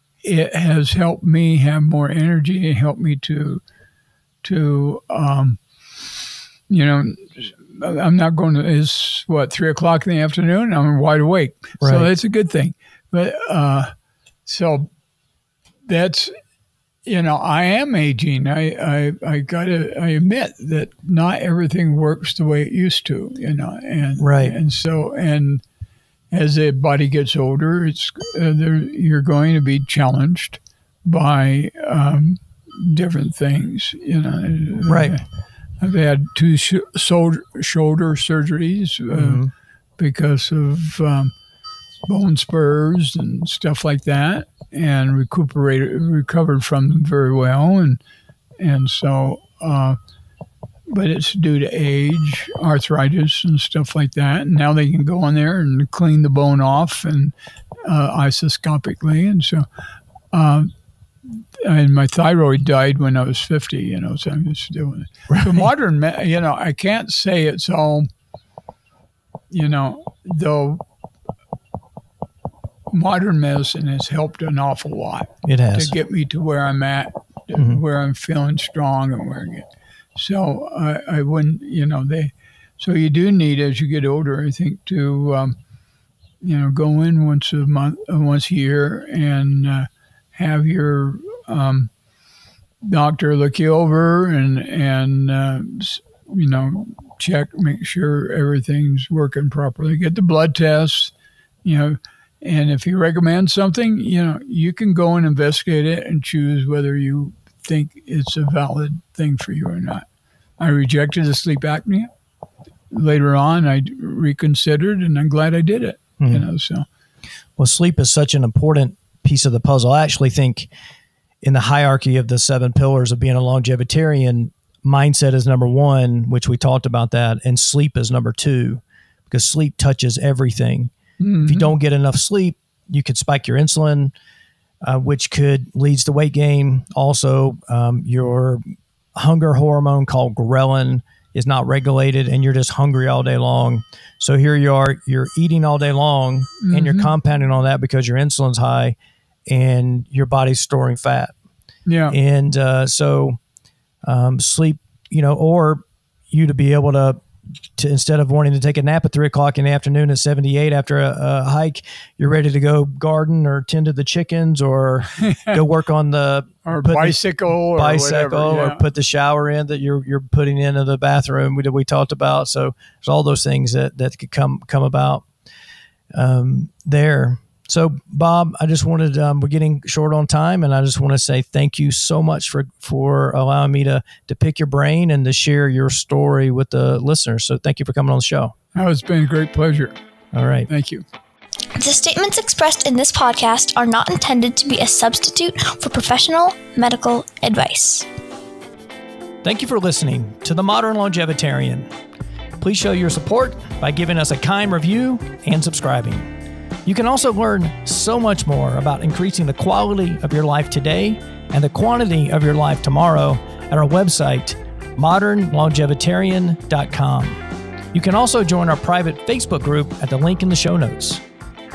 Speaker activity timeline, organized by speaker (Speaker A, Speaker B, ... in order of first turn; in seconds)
Speaker A: 0.2-3.6, 4.4-5.6, 6.7-13.9, 14.5-14.9, 15.9-16.4, 17.1-25.6, 26.3-35.2, 35.8-39.5, 40.0-41.3, 42.1-48.0, 48.6-50.0, 50.9-57.3, 57.9-59.7, 60.3-60.7, 61.6-68.1, 69.5-70.8, 72.9-85.6, 86.4-91.9, 92.8-110.1, 110.6-112.1, 112.9-116.9, 131.2-131.7, 146.6-147.1, 151.9-152.2, 165.2-165.6, 166.7-168.8, 188.8-189.9, 190.7-191.1
Speaker B: 11.8-12.1, 24.2-24.6, 34.9-35.2, 39.1-39.5, 65.3-65.6, 75.4-75.9, 116.2-116.5, 117.6-120.7, 121.4-130.9, 131.4-134.1, 134.8-138.6, 139.2-149.0, 149.5-151.3, 152.1-153.4, 154.1-157.2, 157.8-167.2, 167.8-175.2, 176.1-188.5, 190.3-190.7, 199.4-201.9, 202.6-206.3, 206.8-217.4, 217.9-221.2
Speaker C: 191.8-198.1